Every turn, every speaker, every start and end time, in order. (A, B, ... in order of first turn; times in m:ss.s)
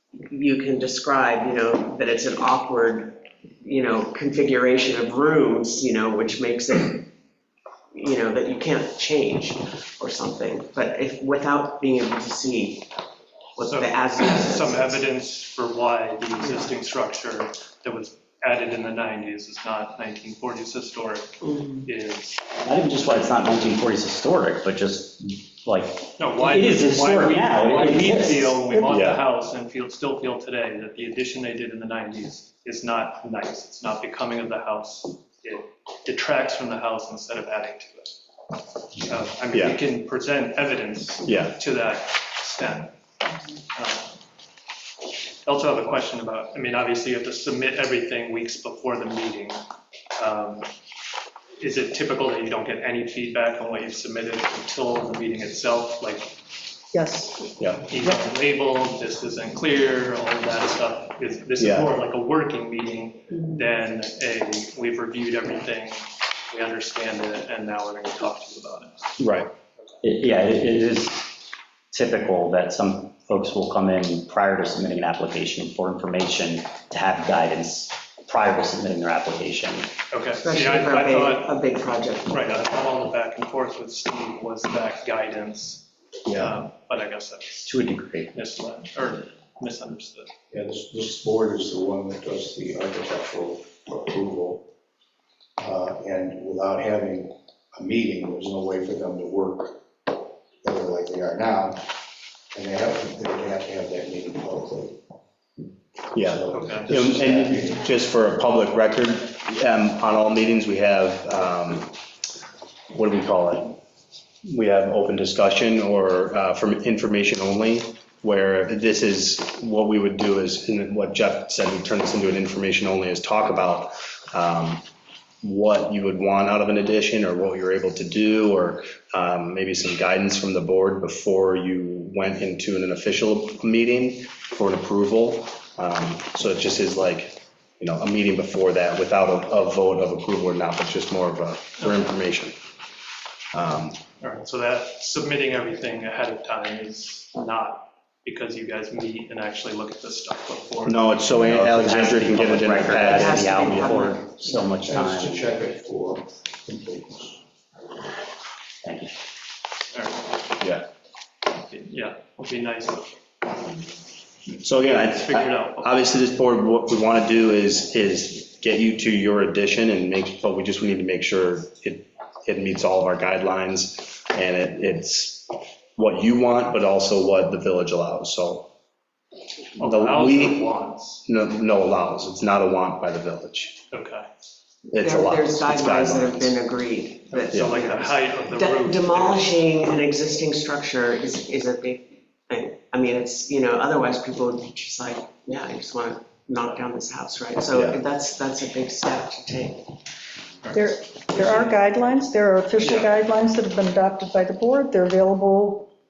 0:00.3-0:07.1 A
0:07.9-0:12.9 A
0:13.6-0:15.0 A
0:13.7-0:23.4 B
0:16.4-0:16.7 A
0:21.4-0:21.8 A
0:22.6-0:28.8 C
0:26.2-0:38.2 B
0:28.9-0:29.2 D
0:39.0-0:42.9 B
0:39.5-0:39.8 D
0:41.2-0:41.6 D
0:43.7-0:44.2 B
0:45.4-0:49.6 B
0:50.2-0:50.7 B
0:51.6-0:56.3 B
0:56.9-0:57.5 E
0:57.6-0:57.9 D
0:57.8-1:09.0 B
1:01.6-1:01.9 D
1:09.2-1:09.5 D
1:10.0-1:19.9 C
1:20.1-1:21.5 B
1:20.4-1:22.6 A
1:22.3-1:27.7 B
1:26.3-1:26.6 D
1:27.7-1:28.3 C
1:28.3-1:30.3 B
1:30.5-1:34.6 F
1:35.6-1:39.8 F
1:40.6-1:41.8 F
1:42.5-1:45.0 F
1:46.1-1:51.9 D
1:46.2-1:47.8 F
1:46.5-1:46.9 B
1:52.9-1:53.8 D
1:54.4-2:04.8 D
2:05.4-2:22.6 D
2:23.5-2:24.0 D
2:24.2-2:31.6 B
2:30.8-2:33.8 D
2:31.7-2:35.4 C
2:33.1-2:34.6 A
2:34.6-2:37.4 F
2:38.8-2:39.1 C
2:39.9-2:40.5 B
2:41.5-2:43.1 B
2:44.6-2:58.7 D
2:44.8-2:45.9 B
2:59.8-3:01.2 B
2:59.8-3:00.7 D
3:01.2-3:03.8 D
3:03.9-3:04.3 B
3:04.9-3:06.6 D
3:05.0-3:19.8 A
3:07.3-3:09.6 B
3:07.5-3:07.8 D
3:17.7-3:18.0 D
3:20.6-3:21.8 B
3:20.7-3:25.9 E
3:22.8-3:23.2 B